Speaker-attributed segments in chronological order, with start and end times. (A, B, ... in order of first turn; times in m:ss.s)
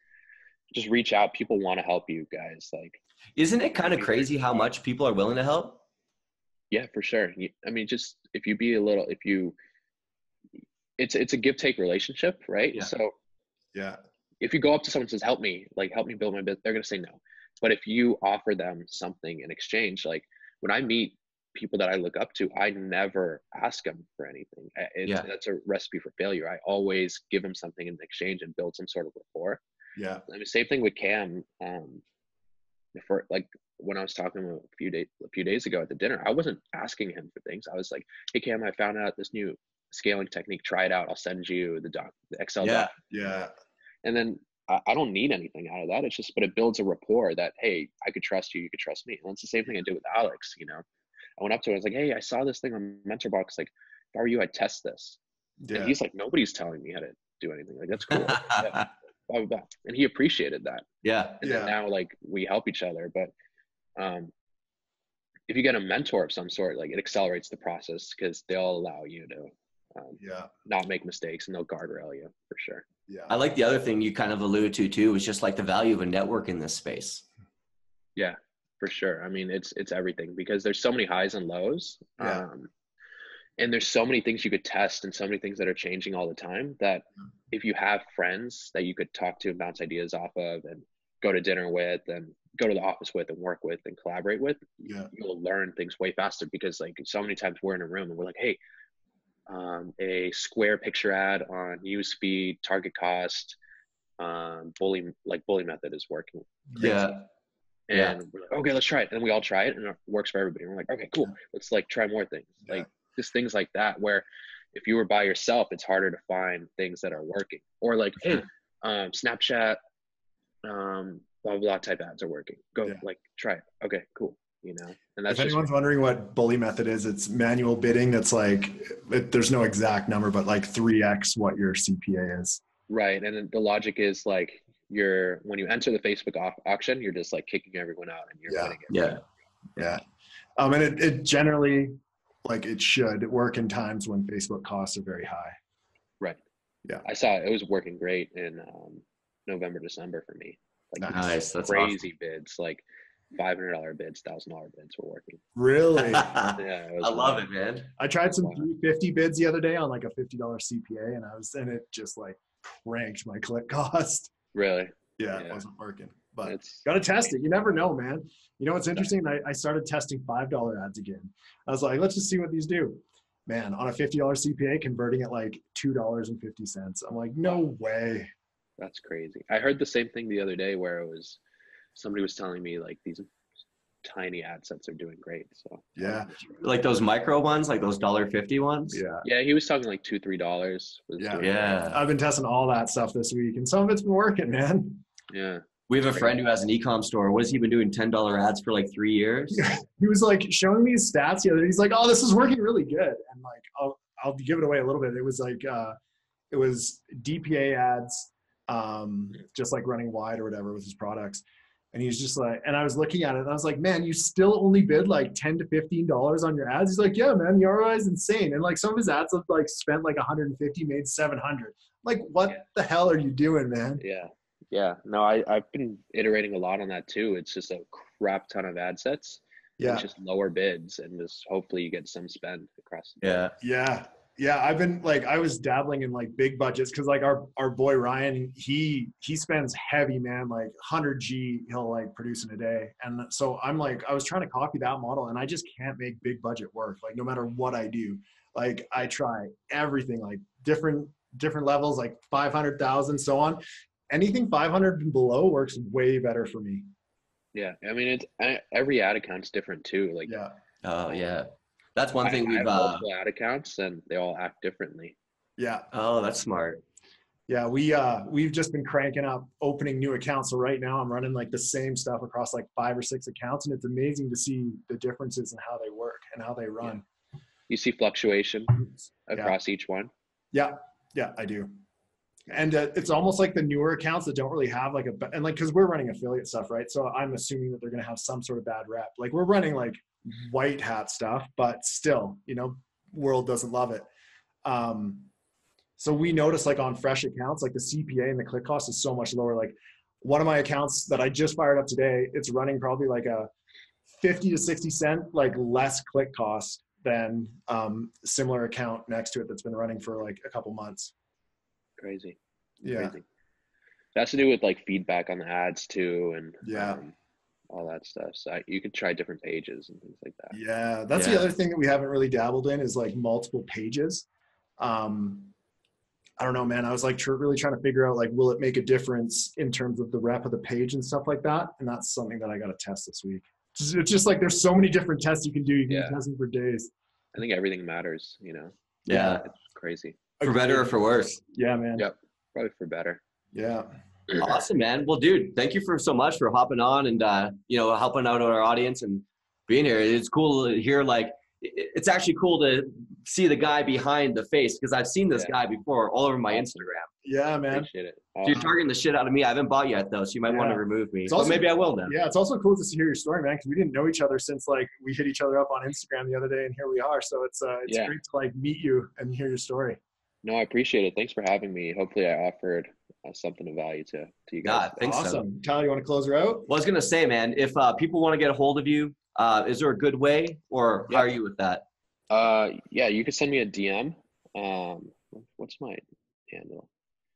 0:00.7-0:03.0 A
0:03.4-0:05.8 B
0:03.8-0:04.3 A
0:06.7-0:09.6 A
0:11.0-0:13.1 A
0:13.7-0:14.0 C
0:14.4-0:29.6 A
0:30.0-0:30.2 C
0:30.3-0:32.0 A
0:33.0-0:43.0 A
0:42.6-0:42.9 B
0:43.1-0:43.5 C
0:44.0-0:50.8 A
0:51.4-0:55.2 A
0:55.6-0:56.0 C
0:55.7-1:00.9 A
0:58.2-0:58.8 B
1:01.0-1:01.4 B
1:01.4-1:03.3 A
1:01.4-1:01.7 C
1:04.0-1:04.3 A
1:05.5-1:12.9 A
1:10.2-1:10.5 C
1:13.1-1:13.4 C
1:13.3-1:17.2 B
1:18.2-1:22.7 A
1:22.2-1:22.4 C
1:23.6-1:38.6 A
1:34.8-1:35.1 C
1:39.5-1:43.6 A
1:44.2-1:47.1 A
1:46.7-1:47.0 C
1:46.8-1:47.2 B
1:47.9-1:59.8 A
1:47.9-1:48.2 B
2:00.6-2:05.7 A
2:05.3-2:12.6 C
2:12.9-2:19.2 A
2:18.5-2:18.8 C
2:18.9-2:19.2 B
2:19.8-2:20.0 C
2:20.6-2:25.6 C
2:27.0-2:35.4 A
2:31.0-2:31.4 C
2:31.1-2:32.0 B
2:35.6-2:36.4 C
2:36.0-2:37.9 B
2:36.6-2:37.5 A
2:38.0-2:44.3 C
2:38.3-2:38.6 A
2:44.5-2:45.6 A
2:45.2-2:58.3 C
2:46.4-2:47.7 A
2:58.8-3:01.4 A
3:02.0-3:03.3 A
3:04.0-3:06.5 A
3:06.0-3:06.3 C
3:06.6-3:09.0 B
3:08.9-3:09.2 C
3:09.2-3:11.9 A
3:11.2-3:15.0 C
3:11.4-3:12.0 B
3:15.3-3:16.3 A
3:15.9-3:19.7 B
3:19.5-3:26.0 C
3:26.5-3:44.0 C
3:44.0-3:53.5 A
3:49.8-3:50.1 C
3:53.2-3:53.5 B
3:53.6-4:16.9 C
4:17.6-4:20.4 A
4:20.3-4:20.5 C
4:20.8-4:23.0 B
4:22.2-4:25.2 A
4:25.6-4:25.9 C
4:25.9-4:26.8 B
4:27.5-4:37.0 C
4:37.7-4:40.1 A
4:40.5-4:41.7 C
4:42.5-4:54.1 C
4:54.6-4:55.3 C
4:56.0-5:03.5 C
5:04.1-5:11.1 C
5:12.0-5:12.4 A
5:12.8-5:13.2 C
5:12.9-5:13.2 A
5:14.2-5:17.2 A
5:16.6-5:17.0 C
5:17.7-5:20.6 A
5:20.5-5:24.3 C
5:21.1-5:21.5 B
5:24.8-5:25.5 C
5:26.4-5:36.9 C
5:35.9-5:36.2 A
5:37.4-5:40.2 A
5:39.1-5:39.4 B
5:39.1-5:39.4 C
5:40.4-5:40.9 C
5:40.4-5:41.4 B
5:41.5-5:42.1 C
5:42.0-5:43.2 A
5:43.5-5:43.9 C
5:44.4-5:57.1 B
5:55.3-5:55.6 A
5:56.5-5:56.9 A
5:57.2-5:57.9 C
5:57.7-5:58.7 A
5:58.4-6:02.2 B
6:00.5-6:10.0 C
6:07.9-6:08.2 A
6:10.4-6:15.0 A
6:14.6-6:15.4 B
6:15.0-6:16.7 C
6:16.7-6:21.8 B
6:22.3-6:26.9 A